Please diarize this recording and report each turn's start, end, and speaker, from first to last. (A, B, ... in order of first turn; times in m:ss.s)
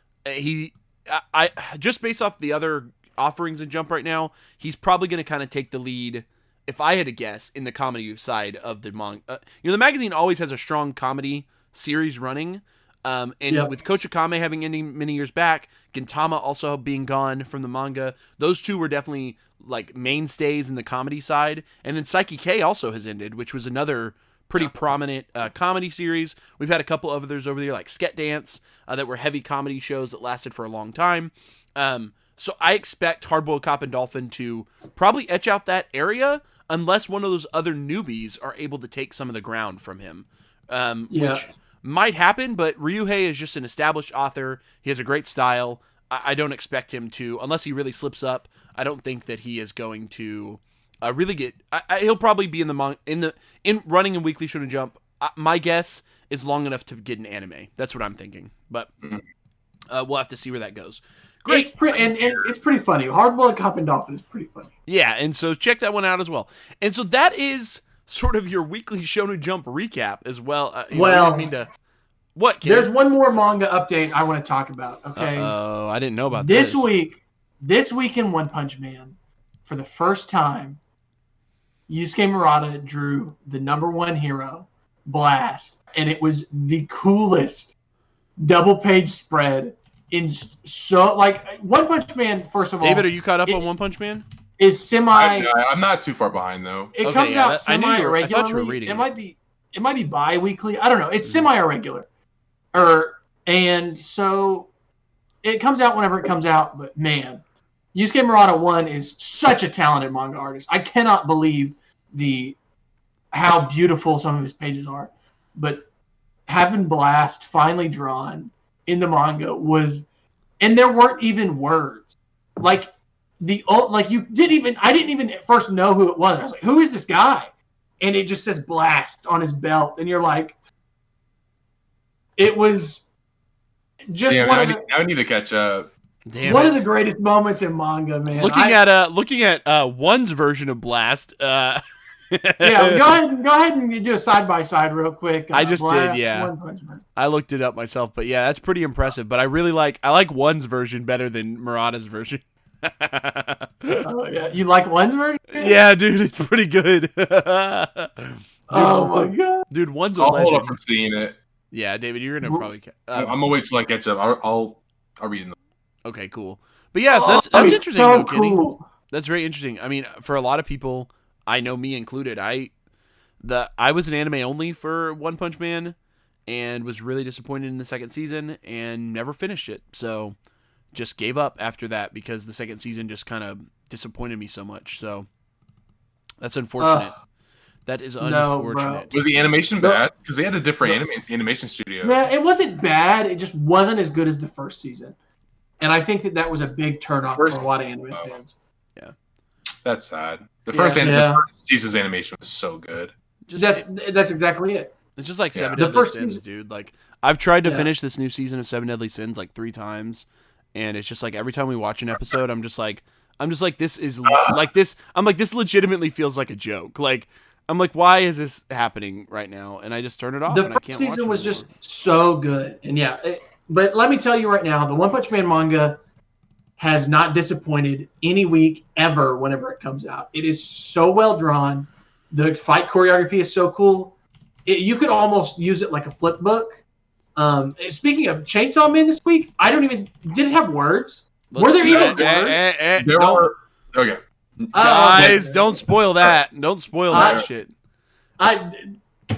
0:00.2-0:58.9 A
0:41.1-0:41.4 B
0:59.9-1:02.0 A
1:01.5-1:04.7 B
1:04.9-1:11.7 A
1:10.9-1:11.5 B
1:12.4-1:12.9 A
1:12.6-1:15.5 B
1:15.2-1:16.9 A
1:16.3-1:20.8 B
1:21.9-1:27.7 B
1:28.4-1:33.6 B
1:32.8-1:34.2 A
1:34.6-1:35.5 B
1:35.1-1:36.9 C
1:36.9-1:42.0 B
1:37.0-1:39.1 A
1:42.7-1:44.7 B
1:45.4-1:47.4 B
1:47.9-1:52.6 B
1:53.3-1:55.8 B
1:56.5-2:00.0 B
2:00.6-2:10.5 B
2:12.4-2:13.0 B
2:14.1-2:14.8 B
2:14.3-2:15.9 C
2:16.3-2:16.8 A
2:16.4-2:18.8 B
2:18.3-2:23.1 A
2:22.6-2:27.0 B
2:25.5-2:26.5 A
2:27.2-2:34.0 A
2:34.0-2:35.8 B
2:35.5-2:40.8 A
2:38.7-2:39.6 B
2:40.2-2:41.4 C
2:41.7-2:43.3 A
2:43.1-2:45.6 C
2:46.0-2:52.7 A
2:47.1-2:48.8 B
2:53.4-2:55.9 A
2:56.5-3:00.3 A
3:00.9-3:05.3 A
3:06.4-3:07.1 A
3:06.8-3:07.1 B
3:07.8-3:09.1 A
3:08.2-3:09.1 B
3:09.1-3:12.2 C
3:12.0-3:15.2 B
3:15.8-3:18.5 B
3:17.3-3:18.3 C
3:19.8-3:23.1 C
3:20.7-3:21.4 B
3:23.5-3:23.8 A
3:23.6-3:24.9 B
3:25.2-3:41.7 A
3:25.7-3:26.4 B
3:34.2-3:34.6 C
3:40.5-3:46.0 B
3:46.8-3:54.1 B
3:54.6-3:56.8 B
3:57.4-4:02.6 B
4:01.5-4:03.5 A
4:01.8-4:05.4 C
4:04.7-4:05.7 B
4:04.8-4:07.7 A
4:07.1-4:07.4 C
4:07.1-4:07.4 B
4:08.4-4:09.0 B